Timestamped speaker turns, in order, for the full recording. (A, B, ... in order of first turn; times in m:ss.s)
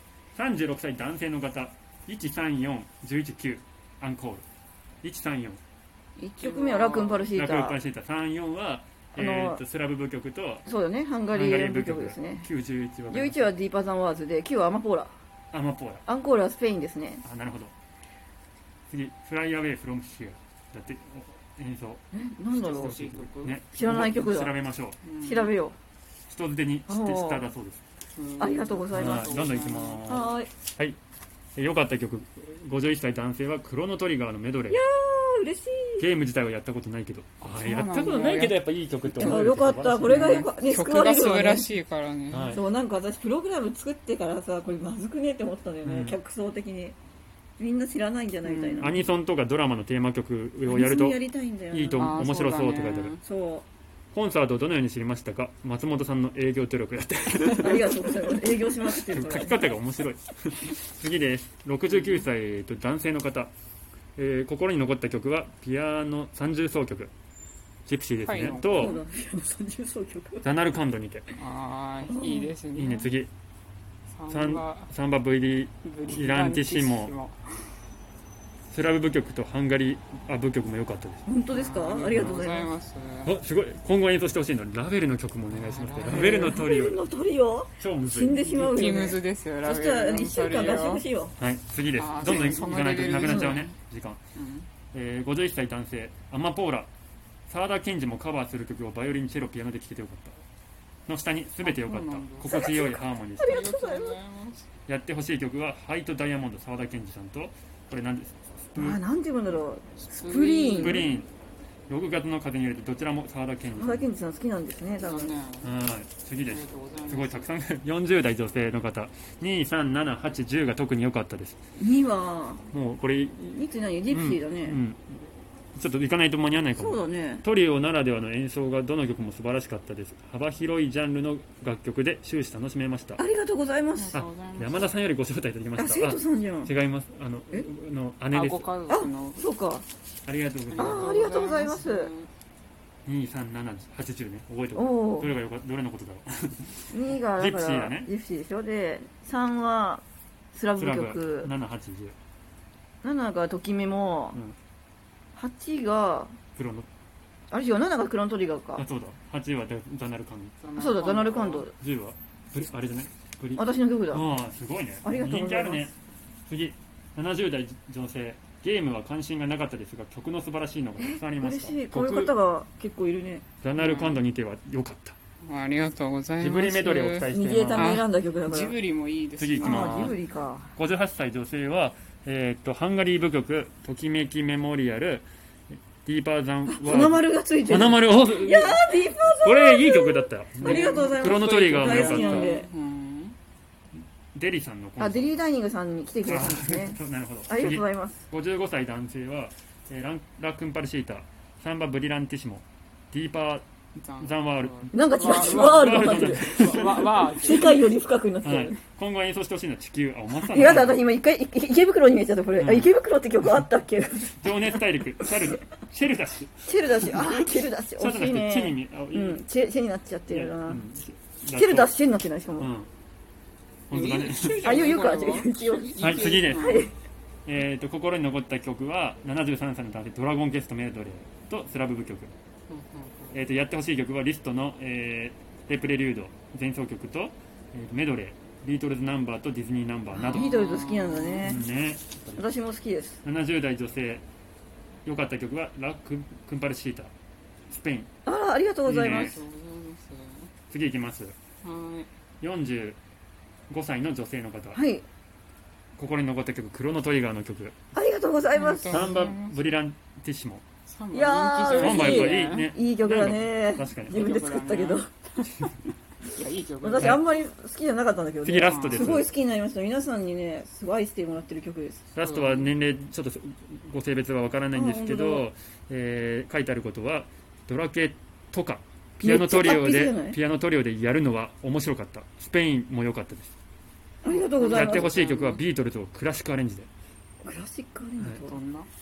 0:00.3-0:04.4 A
0:05.0-0:05.6 A
0:06.2-0:07.8 B
0:06.4-0:07.3 C
0:07.3-0:10.6 A
0:09.2-0:09.6 B
0:10.6-0:12.4 B
0:11.3-0:13.5 A
0:13.1-0:15.1 B
0:15.5-0:16.0 A
0:16.0-0:17.2 B
0:17.2-0:17.7 A
0:18.9-0:22.0 A
0:22.1-0:23.0 B
0:22.5-0:23.6 C
0:22.8-0:25.0 A
0:23.7-0:24.5 B
0:25.0-0:25.5 C
0:25.2-0:25.8 B
0:26.3-0:27.8 A
0:26.9-0:27.4 B
0:28.2-0:30.0 C
0:28.4-0:29.3 B
0:28.9-0:31.0 A
0:30.0-0:30.5 B
0:31.6-0:34.8 A
0:34.7-0:36.0 B
0:36.0-0:40.5 A
0:37.5-0:38.6 C
0:39.1-0:41.7 B
0:40.0-0:42.6 C
0:42.3-0:42.6 A
0:42.5-0:47.0 B
0:45.8-0:46.2 A
0:47.6-0:49.0 B
0:48.4-0:48.9 C
0:48.8-0:53.2 A
0:50.6-0:52.2 B
0:52.0-0:53.2 C
0:53.2-0:53.6 B
0:54.1-1:03.5 A
0:57.6-0:59.6 B
1:01.9-1:02.2 C
1:04.2-1:07.1 A
1:07.8-1:09.0 A
1:08.2-1:09.0 C
1:08.7-1:10.5 B
1:10.4-1:11.3 A
1:11.3-1:13.1 C
1:12.1-1:12.5 B
1:12.7-1:13.3 A
1:14.1-1:14.9 C
1:14.3-1:17.1 A
1:15.8-1:17.7 C
1:18.7-1:21.2 A
1:21.2-1:22.7 B
1:21.5-1:23.3 C
1:22.1-1:22.4 A
1:23.2-1:27.0 A
1:25.5-1:26.5 C
1:26.1-1:31.3 B
1:27.8-1:28.9 A
1:28.5-1:31.0 C
1:31.4-1:34.2 A
1:32.0-1:33.7 C
1:33.2-1:33.6 B
1:34.4-1:34.7 C
1:34.9-1:36.9 A
1:37.5-1:40.4 A
1:41.1-1:43.5 A
1:41.6-1:42.6 C
1:42.5-1:44.2 B
1:43.4-1:44.7 C
1:44.9-1:49.0 A
1:48.8-1:51.1 B
1:50.0-1:51.1 C
1:50.8-1:51.3 A
1:51.9-1:54.1 A
1:53.7-1:55.3 B
1:55.0-1:55.7 C
1:55.6-2:01.6 A
1:56.4-1:57.5 C
2:01.8-2:02.7 B
2:02.7-2:05.2 A
2:03.5-2:04.8 B
2:05.7-2:13.2 A
2:06.8-2:07.4 B
2:13.2-2:14.2 B
2:14.0-2:14.9 C
2:14.1-2:18.7 A
2:15.8-2:16.7 B
2:18.3-2:19.4 C
2:18.9-2:19.8 B
2:20.2-2:21.2 A
2:20.7-2:22.3 C
2:20.8-2:22.1 B
2:23.0-2:28.1 A
2:24.7-2:25.3 B
2:26.9-2:31.5 B
2:30.8-2:32.1 A
2:33.0-2:34.4 B
2:35.4-2:36.4 B
2:36.6-2:36.9 A
2:37.5-2:38.8 B
2:38.8-2:40.6 A
2:40.6-2:41.6 C
2:40.8-2:41.7 B
2:41.8-2:46.0 A
2:43.6-2:44.2 B
2:45.0-2:45.9 B
2:46.5-2:52.3 A
2:51.0-2:53.4 B
2:53.6-2:55.2 A
2:53.8-2:54.2 C
2:55.4-3:00.1 C
2:56.4-2:58.0 A
2:57.3-2:58.8 B
2:59.4-3:00.2 A
2:59.6-3:00.7 B
3:00.8-3:05.3 A
3:06.0-3:12.6 A
3:06.7-3:12.7 B
3:10.6-3:13.4 C
3:14.3-3:15.4 A
3:15.0-3:18.2 B
3:16.2-3:23.6 A
3:24.0-3:27.9 C
3:24.2-3:27.3 A
3:24.9-3:28.8 B
3:28.4-3:31.0 A
3:30.4-3:34.8 B
3:32.6-3:32.9 A
3:34.4-3:39.4 A
3:36.6-3:40.8 B
3:40.3-3:41.9 A
3:41.5-3:42.7 B
3:42.6-3:42.9 A
3:43.9-3:44.8 A
3:43.9-3:46.9 C
3:44.6-3:46.9 B
3:46.0-3:46.8 A
3:47.4-3:52.3 A
3:52.7-3:53.4 C
3:53.3-4:00.6 A
4:00.1-4:01.6 B
4:00.2-4:01.6 C
4:01.4-4:02.4 A
4:02.4-4:03.2 B
4:03.2-4:04.2 A
4:05.0-4:07.1 A
4:07.7-4:08.1 A
4:08.2-4:09.4 B
4:08.8-4:09.4 A
4:09.1-4:10.5 C
4:10.7-4:11.4 A
4:11.6-4:12.1 C
4:12.4-4:13.0 A
4:13.7-4:14.8 A
4:14.7-4:15.0 B
4:16.0-4:17.7 A
4:17.9-4:19.2 B
4:18.5-4:19.7 C
4:18.9-4:20.6 A
4:20.9-4:22.8 C
4:21.1-4:25.1 B
4:21.8-4:24.2 A
4:24.1-4:25.0 C
4:26.2-4:27.2 C
4:26.8-4:32.0 B
4:28.4-4:29.3 A
4:28.6-4:29.2 C
4:32.1-4:43.5 A
4:32.2-4:32.7 C
4:34.7-4:35.5 B
4:39.2-4:40.4 B
4:44.2-4:45.1 B
4:44.3-4:45.6 C
4:44.6-4:46.9 A
4:47.4-4:48.6 B
4:48.3-4:48.9 C